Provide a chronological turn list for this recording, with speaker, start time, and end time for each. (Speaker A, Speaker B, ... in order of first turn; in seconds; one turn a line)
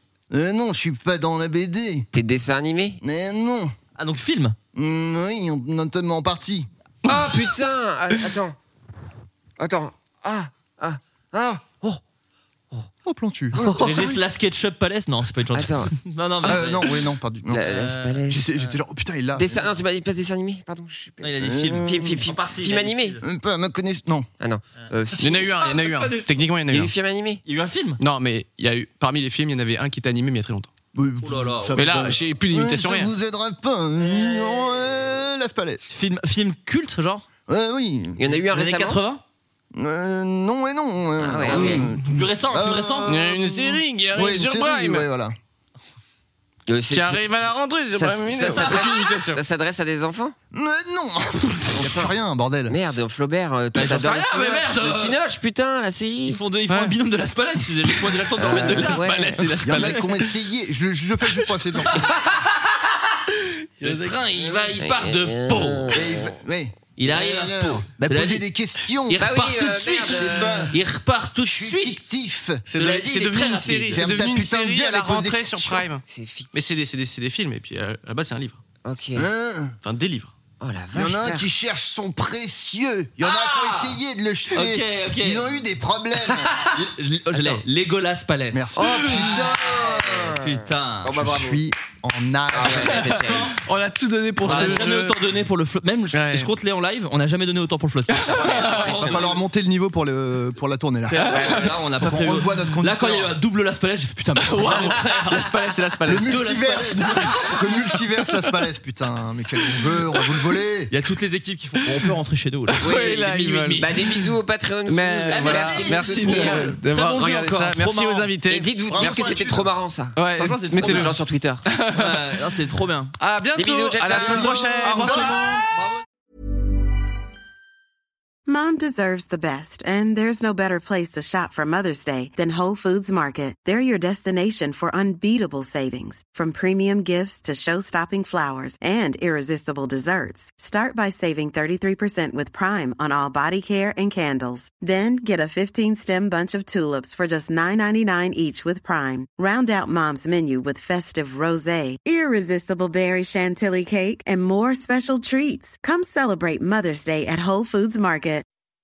Speaker A: 0.3-2.1
Speaker B: 2.1-3.0
Speaker A: 3.0-3.8
Speaker C: 4.0-4.6
Speaker A: 4.7-6.7
Speaker B: 7.0-8.6
Speaker D: 7.1-7.4
Speaker B: 9.6-12.0
Speaker A: 13.1-14.2
Speaker B: 13.5-14.1
Speaker C: 13.8-17.0
Speaker B: 15.5-15.9
Speaker A: 16.4-17.6
Speaker B: 16.5-16.9
Speaker B: 17.5-18.5
Speaker C: 17.6-18.8
Speaker A: 18.3-19.6
Speaker B: 19.3-23.2
Speaker C: 21.2-23.2
Speaker A: 21.4-22.2
Speaker A: 23.2-24.3
Speaker B: 24.4-25.6
Speaker D: 25.2-26.9
Speaker C: 25.6-26.3
Speaker B: 26.7-27.4
Speaker C: 27.4-28.0
Speaker D: 28.0-30.7
Speaker A: 30.9-35.9
Speaker C: 31.2-32.1
Speaker D: 31.8-33.1
Speaker C: 34.0-34.8
Speaker C: 35.9-37.2
Speaker A: 37.5-38.4
Speaker B: 38.2-39.0
Speaker C: 38.5-39.2
Speaker A: 39.7-45.4
Speaker B: 41.2-41.9
Speaker C: 41.5-43.1
Speaker D: 43.1-45.1
Speaker B: 46.7-50.4
Speaker D: 46.9-49.4
Speaker C: 48.4-49.0
Speaker A: 50.5-52.8
Speaker B: 51.8-52.1
Speaker B: 52.7-56.4
Speaker C: 53.7-55.2
Speaker C: 56.2-60.1
Speaker D: 56.7-57.0
Speaker D: 58.2-60.2
Speaker B: 58.4-59.4
Speaker A: 59.6-62.1
Speaker C: 61.9-62.8
Speaker C: 63.8-66.1
Speaker B: 64.4-66.3
Speaker A: 65.9-69.3
Speaker C: 67.0-68.5
Speaker C: 69.1-72.1
Speaker B: 69.1-70.7
Speaker A: 70.1-70.8
Speaker A: 71.5-72.6
Speaker D: 72.7-78.6
Speaker C: 72.7-74.2
Speaker A: 73.9-75.9
Speaker B: 76.0-76.8
Speaker B: 78.8-79.3
Speaker A: 79.2-79.8
Speaker D: 79.8-80.3
Speaker B: 80.6-81.5
Speaker A: 80.9-86.5
Speaker C: 83.2-84.0
Speaker C: 84.5-85.6
Speaker C: 86.3-91.3
Speaker A: 87.3-87.6
Speaker A: 88.5-89.2
Speaker B: 88.8-91.7
Speaker A: 91.1-93.1
Speaker B: 92.5-93.5
Speaker C: 92.6-93.6
Speaker D: 93.1-95.2
Speaker C: 94.4-99.4
Speaker D: 96.1-96.5
Speaker D: 98.1-99.0
Speaker B: 98.3-99.3
Speaker A: 98.9-101.3
Speaker C: 101.1-105.5
Speaker D: 101.2-101.9
Speaker B: 101.4-101.7
Speaker A: 102.0-103.4
Speaker D: 104.4-106.7
Speaker B: 104.7-105.2
Speaker A: 106.1-110.9
Speaker C: 106.1-107.5
Speaker C: 110.9-112.9
Speaker D: 112.7-114.3
Speaker B: 112.8-116.7
Speaker D: 114.9-119.4
Speaker C: 115.3-118.3
Speaker B: 118.5-120.2
Speaker A: 118.9-119.7
Speaker D: 120.2-122.3
Speaker C: 120.3-121.2
Speaker B: 120.7-121.6
Speaker C: 121.9-123.2
Speaker D: 123.2-125.7
Speaker B: 123.5-125.6
Speaker C: 124.1-126.0
Speaker E: 128.5-158.5